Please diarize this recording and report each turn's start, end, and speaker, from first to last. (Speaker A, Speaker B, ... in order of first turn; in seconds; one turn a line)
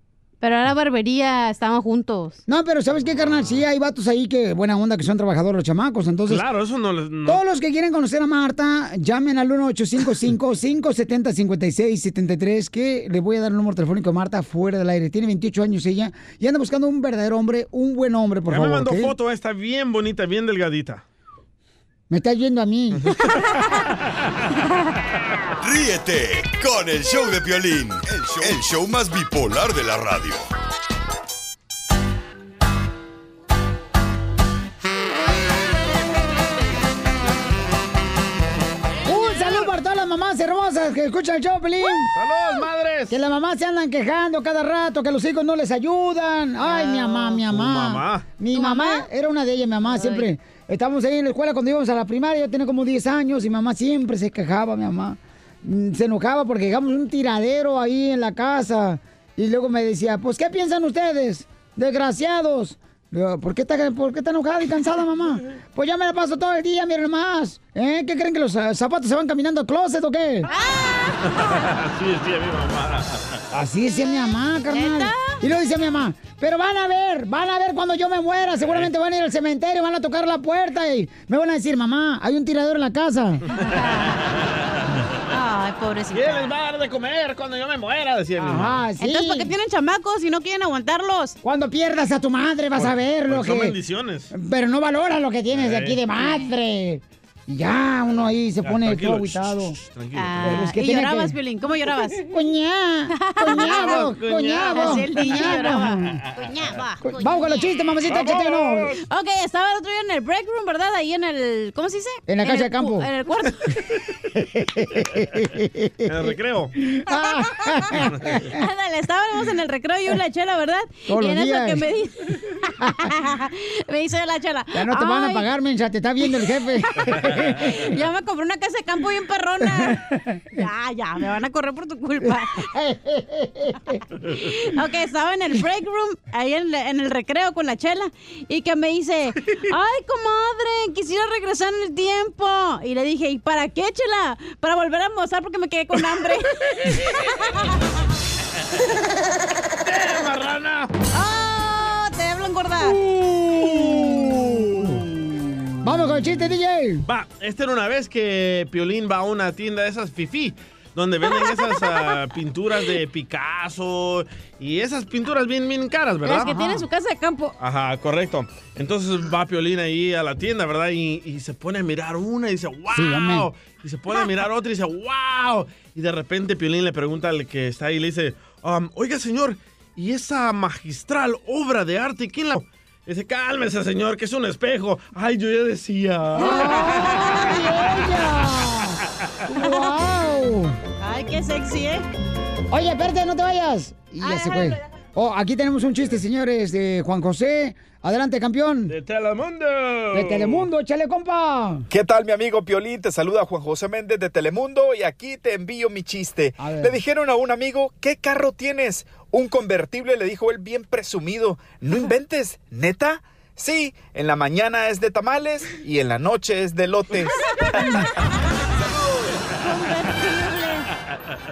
Speaker A: 0.4-2.4
Speaker B: 2.5-6.4
Speaker C: 6.3-7.4
Speaker B: 7.2-19.1
Speaker C: 18.5-21.0
Speaker B: 22.1-23.1
Speaker C: 23.0-23.4
Speaker D: 25.6-30.5
Speaker B: 39.0-42.1
Speaker C: 42.1-43.2
Speaker B: 43.1-70.5
Speaker A: 46.6-47.4
Speaker C: 47.3-48.3
Speaker A: 48.5-49.1
Speaker A: 49.9-50.3
Speaker A: 70.4-71.7
Speaker C: 71.3-73.4
Speaker B: 73.5-83.5
Speaker A: 74.7-75.4
Speaker A: 83.6-84.2
Speaker A: 85.3-86.5
Speaker C: 86.1-88.8
Speaker B: 88.4-89.5
Speaker A: 89.0-91.4
Speaker B: 91.4-93.7
Speaker C: 92.8-94.3
Speaker B: 94.3-99.8
Speaker C: 95.5-96.0
Speaker C: 98.6-100.7
Speaker A: 100.1-102.3
Speaker B: 100.4-101.3
Speaker B: 102.2-106.2
Speaker A: 103.1-108.0
Speaker C: 103.6-105.6
Speaker B: 107.0-109.0
Speaker C: 108.0-109.0
Speaker A: 109.0-113.6
Speaker B: 112.3-113.1
Speaker B: 114.4-116.1
Speaker C: 116.1-116.7
Speaker B: 116.9-118.5
Speaker A: 117.3-117.6
Speaker A: 118.5-125.5
Speaker B: 121.1-121.8
Speaker B: 124.7-127.9
Speaker A: 126.2-127.0
Speaker A: 127.7-130.0
Speaker B: 129.8-130.6
Speaker A: 130.6-132.7
Speaker B: 132.7-134.0
Speaker A: 134.3-147.2
Speaker C: 149.8-150.9
Speaker A: 151.1-153.0
Speaker C: 152.8-155.4
Speaker B: 153.6-155.0
Speaker B: 155.8-157.0
Speaker C: 157.1-166.5
Speaker A: 166.2-167.5
Speaker B: 166.4-166.8
Speaker C: 167.6-186.9
Speaker B: 172.9-173.5
Speaker B: 186.4-190.8
Speaker A: 186.4-187.7
Speaker A: 189.6-189.9
Speaker A: 191.0-192.0
Speaker B: 192.7-198.9
Speaker A: 194.2-194.8
Speaker C: 198.9-200.7
Speaker B: 200.1-201.8
Speaker E: 201.9-217.3
Speaker B: 206.6-206.9
Speaker A: 219.6-220.9